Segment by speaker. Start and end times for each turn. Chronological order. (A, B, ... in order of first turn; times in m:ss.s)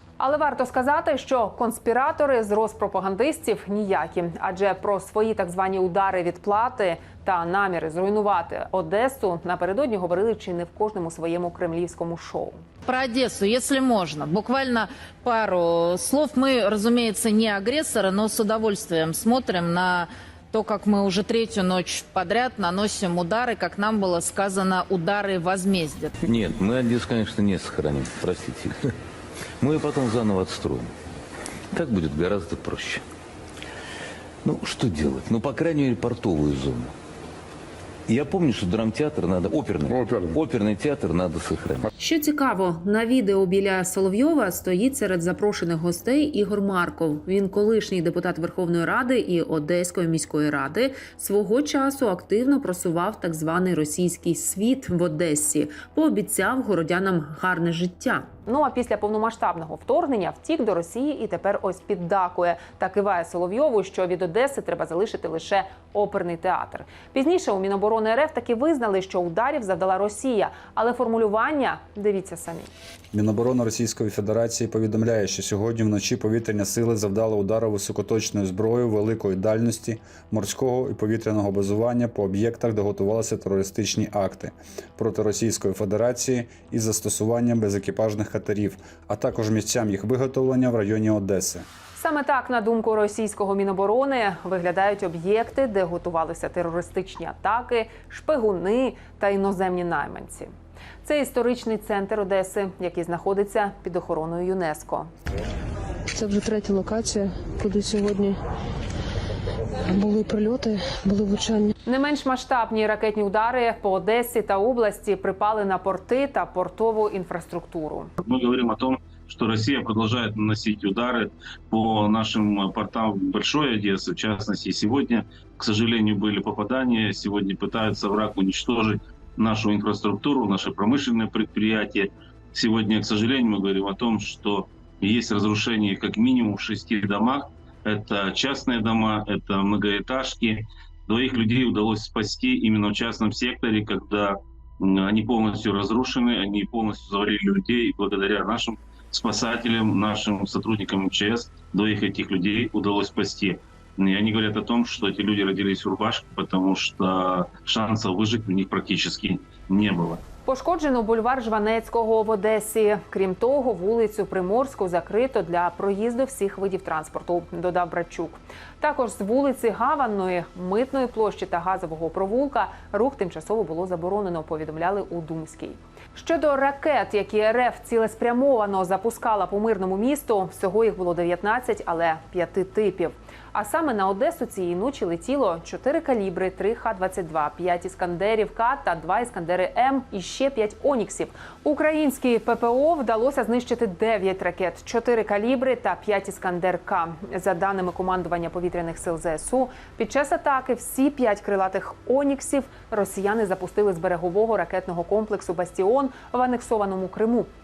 0:00.2-0:12.6 A
0:12.9-0:26.1 B
0:26.2-0:28.9 C
0:29.6-0:30.9 C
0:31.7-0:33.0 C
0:34.4-0:36.9 C
0:38.1-0:41.9 C
0:42.0-1:12.7 A
1:13.1-1:31.6 D
1:32.0-1:40.5 A
1:41.0-1:45.1 A
1:46.1-1:48.4 E
1:49.9-1:51.7 E
1:51.9-1:58.1 A
1:58.2-2:40.2 F
2:40.5-3:27.5 A